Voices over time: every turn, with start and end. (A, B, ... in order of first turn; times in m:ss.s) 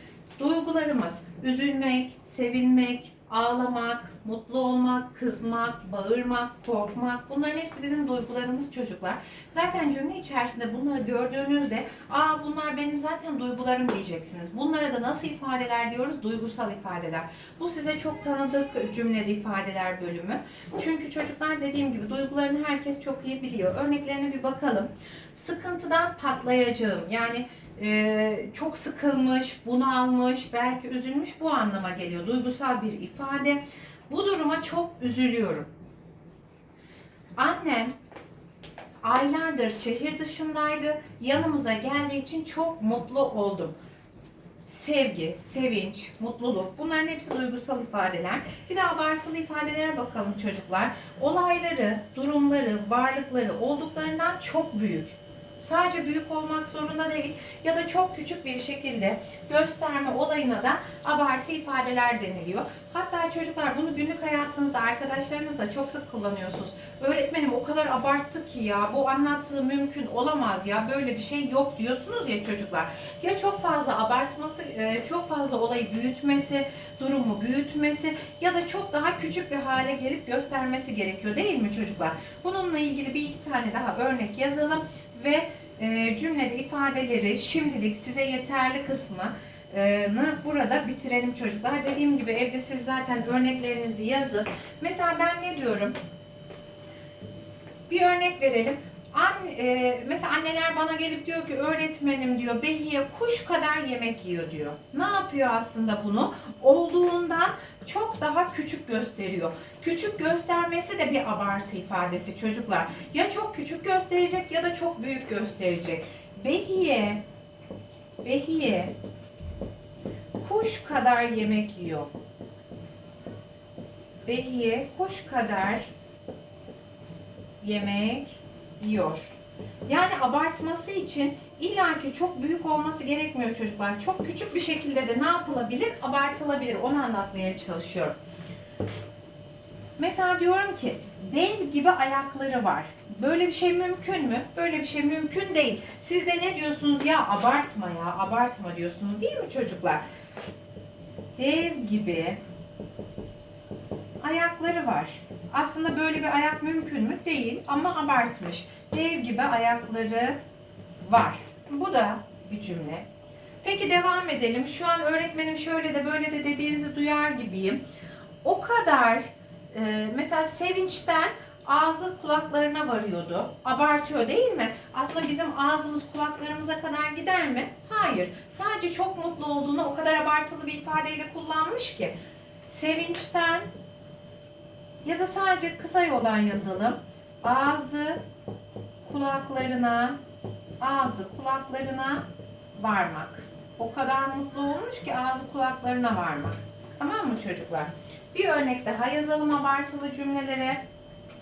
0:00.4-0:35.7 A
0:37.4-0:37.9 A
0:39.0-0:43.8 A
0:44.7-1:36.0 A
1:37.9-1:57.2 A
1:58.2-1:58.9 A
2:00.4-2:02.1 A
2:04.3-2:05.9 A
2:07.6-2:09.4 A
2:09.9-2:18.2 A
2:20.0-2:30.0 A
2:31.4-2:32.4 A
2:34.2-2:40.4 A
2:41.0-2:43.1 A
2:43.6-2:47.8 A
2:48.4-3:03.7 A
3:05.0-3:08.2 A
3:09.0-3:10.2 A
3:10.8-3:12.2 A
3:12.8-3:20.8 A